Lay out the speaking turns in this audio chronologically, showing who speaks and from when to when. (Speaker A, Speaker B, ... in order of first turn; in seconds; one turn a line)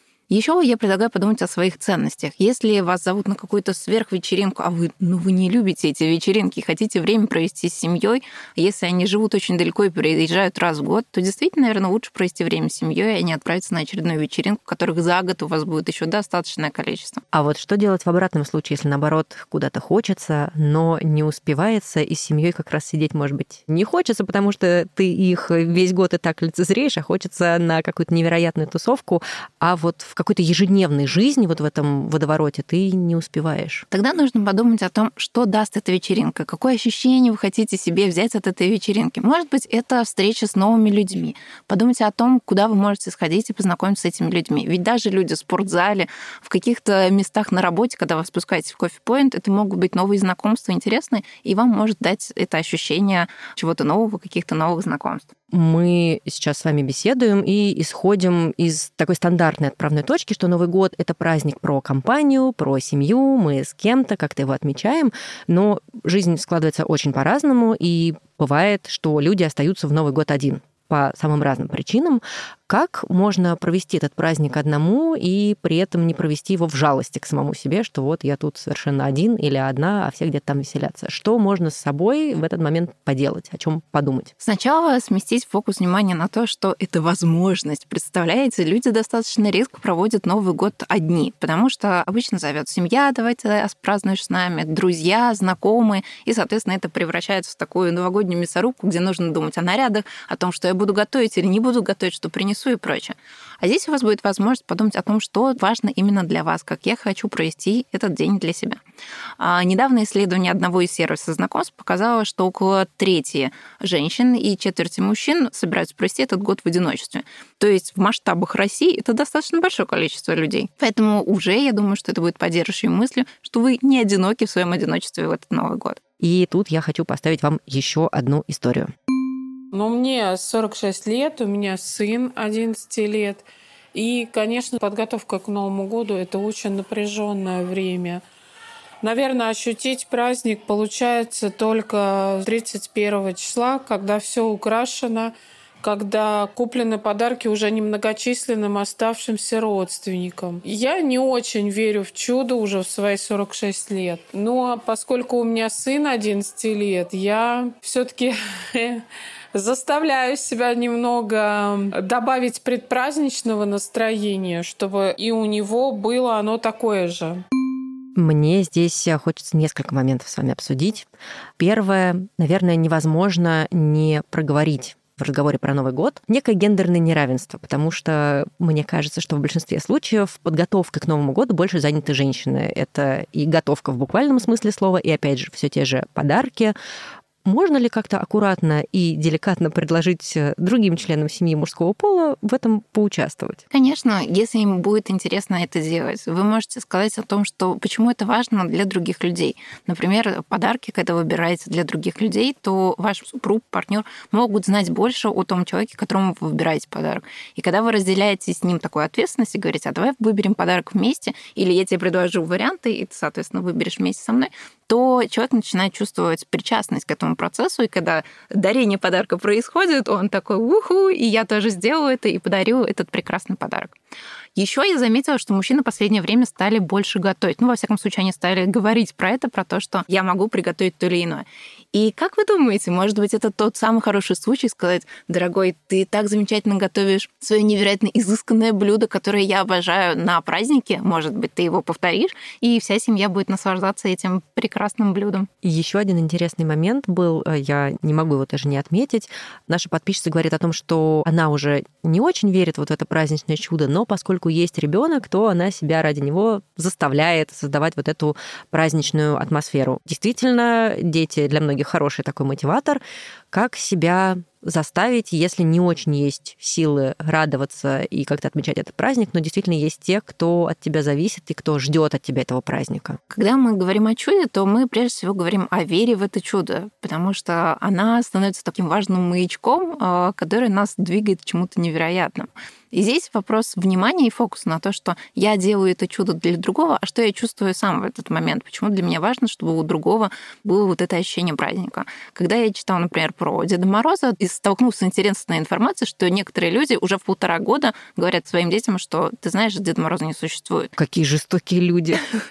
Speaker A: 0.3-17.2
Speaker B: 17.3-33.9
Speaker A: 33.9-55.3
Speaker B: 55.5-84.3
Speaker A: 84.4-108.8
Speaker A: 109.4-126.0
Speaker B: 126.2-128.9
Speaker C: 129.7-133.4
Speaker C: 133.9-138.2
Speaker C: 139.0-167.4
Speaker B: 168.2-171.1
Speaker B: 171.6-186.8
Speaker B: 187.4-193.6
Speaker A: 193.7-224.0
Speaker A: 224.6-245.5
Speaker B: 245.6-273.2
Speaker A: 273.3-300.9
Speaker B: 301.0-302.3